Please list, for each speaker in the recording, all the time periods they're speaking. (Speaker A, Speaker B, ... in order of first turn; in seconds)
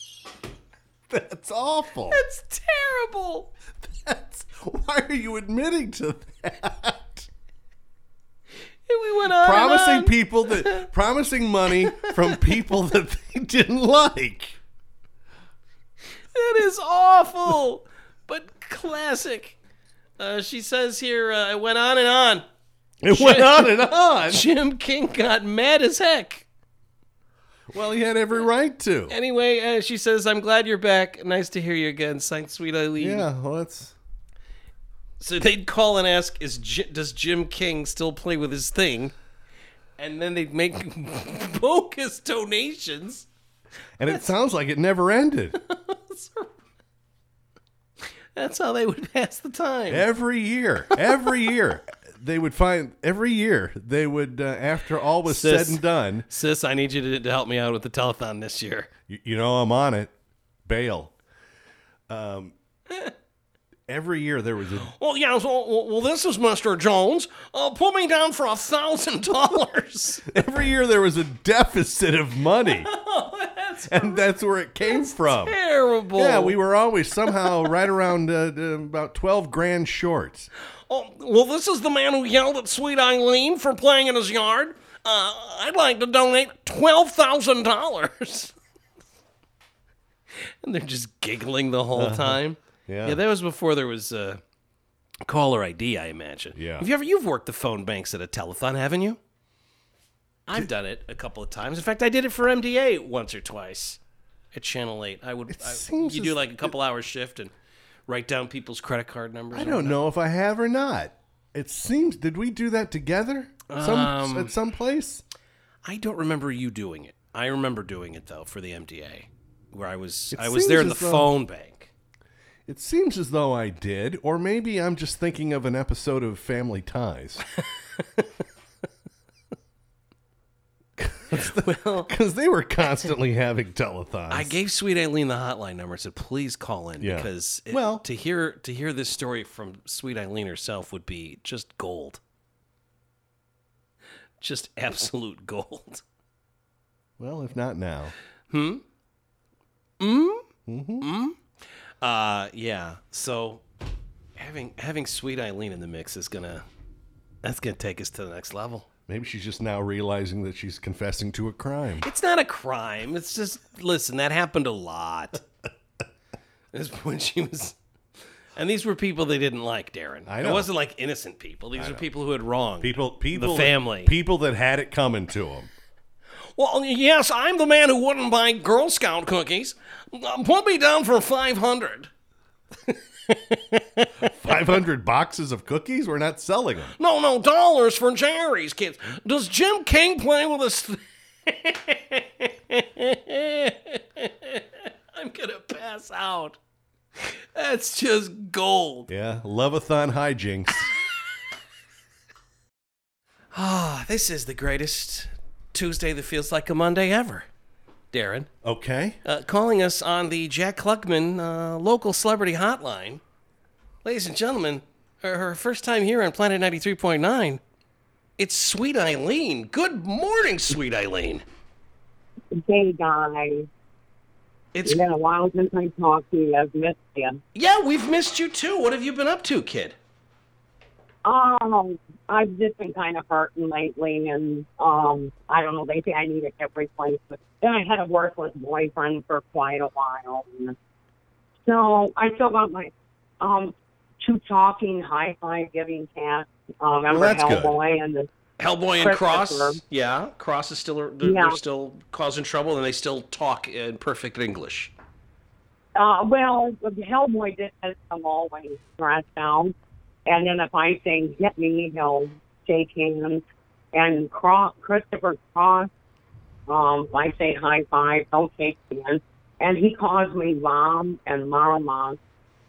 Speaker A: 1.1-2.2, 3.8-7.3, 9.2-14.6, 23.0-24.4, 27.7-29.1, 33.0-34.0, 44.0-45.6, 49.9-56.3, 59.1-60.1, 60.6-61.1, 62.1-62.5, 63.9-64.9, 70.3-72.9, 73.9-75.6, 76.1-80.5, 91.9-93.2, 96.5-96.9, 105.5-106.7, 109.5-115.2, 120.3-121.3, 122.7-127.4, 131.0-134.6, 137.0-138.0, 147.2-148.1, 150.7-151.1, 159.1-162.1, 170.2-170.7, 171.8-172.1, 172.8-175.7, 184.2-186.9, 199.1-200.9, 208.6-209.2, 247.1-247.8
Speaker B: 2.1-3.5, 8.9-10.9, 11.9-12.5, 16.3-19.6, 20.2-22.4, 23.1-23.7, 24.3-26.4, 29.1-33.3, 35.2-39.1, 40.0-43.3, 45.6-46.5, 48.3-50.1, 50.9-51.3, 55.2-58.9, 64.8-70.4, 72.6-74.2, 74.9-76.6, 77.3-77.7, 80.9-88.5, 90.6-94.4, 95.2-99.2, 100.5-104.0, 104.5-107.5, 108.1-110.0, 113.7-114.5, 115.8-121.9, 128.0-128.3, 131.3-132.1, 134.3-142.2, 144.4-146.0, 148.5-148.8, 150.0-150.5, 151.0-151.4, 152.0-153.6, 154.3-156.7, 157.4-158.9, 162.0-165.4, 166.7-167.8, 168.6-174.1, 176.6-182.1, 182.9-184.5, 187.0-196.6, 197.2-199.1, 203.5-207.5, 208.1-208.5, 209.2-213.2, 214.0-217.6, 218.4-221.4, 224.7-225.0, 227.5-229.9, 248.6-254.9
Speaker C: 222.6-223.7, 224.8-227.4, 231.2-240.7, 241.6-248.3, 249.0-249.8, 251.2-251.6, 255.9-259.7, 260.2-265.9, 266.7-272.2